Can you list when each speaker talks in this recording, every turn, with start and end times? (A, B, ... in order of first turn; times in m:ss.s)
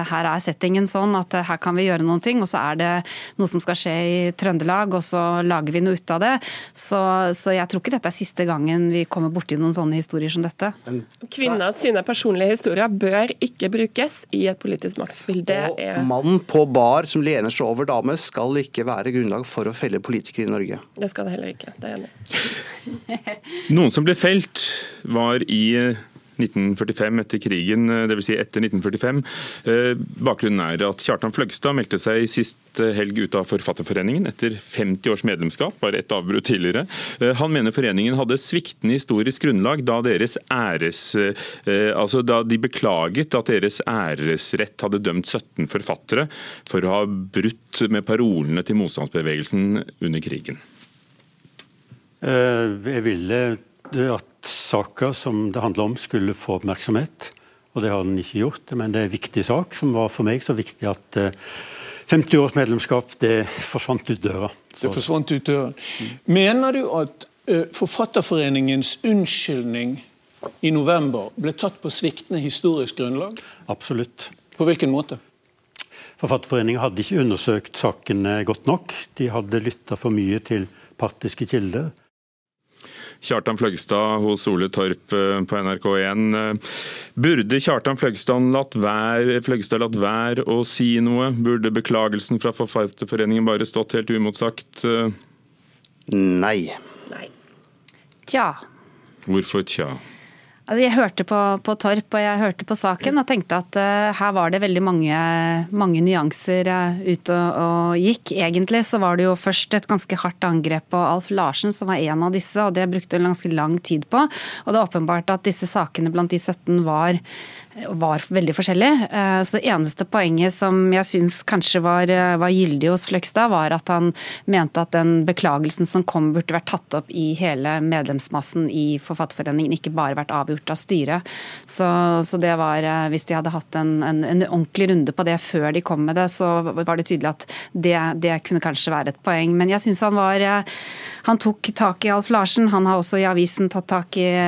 0:00.2-0:10.7 A
0:10.9-0:11.6 B
0:11.3-0:16.1 C
0:15.5-0:20.8 B
0:21.0-0:22.1 C
0:23.7-0:50.6 D
0:52.2-1:01.4 E
1:02.1-1:05.1 E
1:04.9-1:10.0 F
1:10.6-1:13.4 F
1:13.6-1:14.4 E
1:14.6-1:15.2 F
1:16.2-1:21.9 E
1:23.2-1:26.6 D
1:27.2-1:35.1 D
1:36.1-1:36.8 B
1:38.3-1:38.6 A
1:39.3-1:40.0 D
1:40.7-1:57.2 A
1:58.2-2:11.8 A
2:12.4-2:12.9 A
2:13.9-2:14.3 A
2:14.9-2:17.3 A
2:18.5-2:20.2 A
2:21.3-2:24.3 A